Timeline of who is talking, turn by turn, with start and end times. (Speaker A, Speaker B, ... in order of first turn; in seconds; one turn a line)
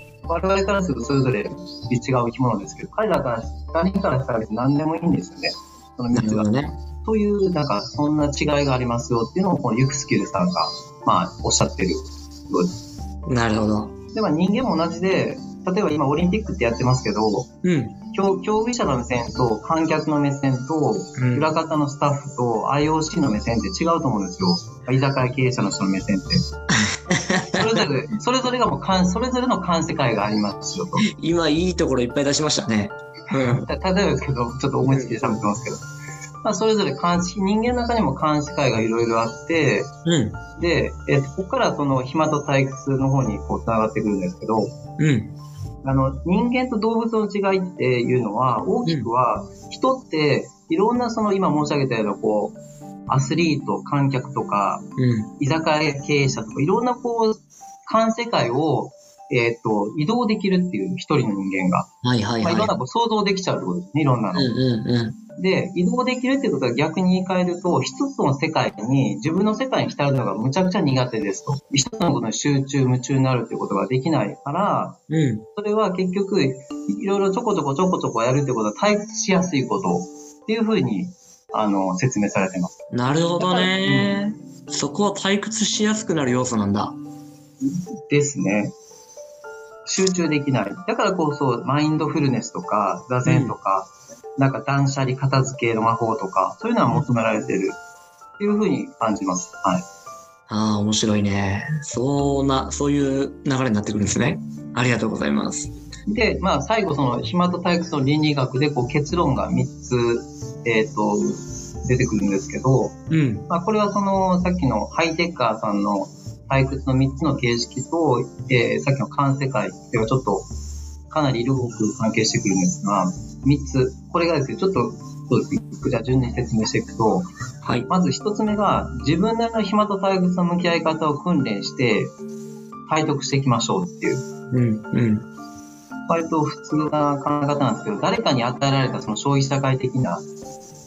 Speaker A: 0.3-12.8
Speaker B: 6.1-6.8
Speaker B: 13.3-13.9
Speaker A: 14.1-17.5
Speaker B: 17.6-18.0
Speaker A: 18.1-26.4
Speaker B: 21.2-21.5
Speaker B: 26.8-27.8
Speaker A: 27.5-31.1
Speaker B: 31.0-33.7
Speaker A: 33.3-35.8
Speaker B: 34.9-35.4
Speaker A: 36.4-39.9
Speaker B: 40.1-40.4
Speaker A: 40.6-44.7
Speaker B: 45.0-45.3
Speaker A: 45.8-54.9
Speaker B: 55.0-55.3
Speaker A: 55.4-61.9
Speaker B: 62.0-62.7
Speaker A: 62.4-64.5
Speaker B: 64.3-65.2
Speaker A: 65.4-75.0
Speaker B: 75.1-75.5
Speaker A: 75.5-82.7
Speaker B: 82.9-87.0
Speaker A: 83.4-84.3
Speaker A: 88.1-88.7
Speaker A: 89.9-97.8
Speaker B: 93.2-93.5
Speaker A: 98.4-99.8
Speaker B: 100.5-105.7
Speaker A: 106.1-120.5
Speaker B: 113.1-113.5
Speaker A: 121.1-127.3
Speaker A: 127.9-132.2
Speaker A: 132.9-134.2
Speaker B: 134.5-135.3
Speaker A: 136.1-140.2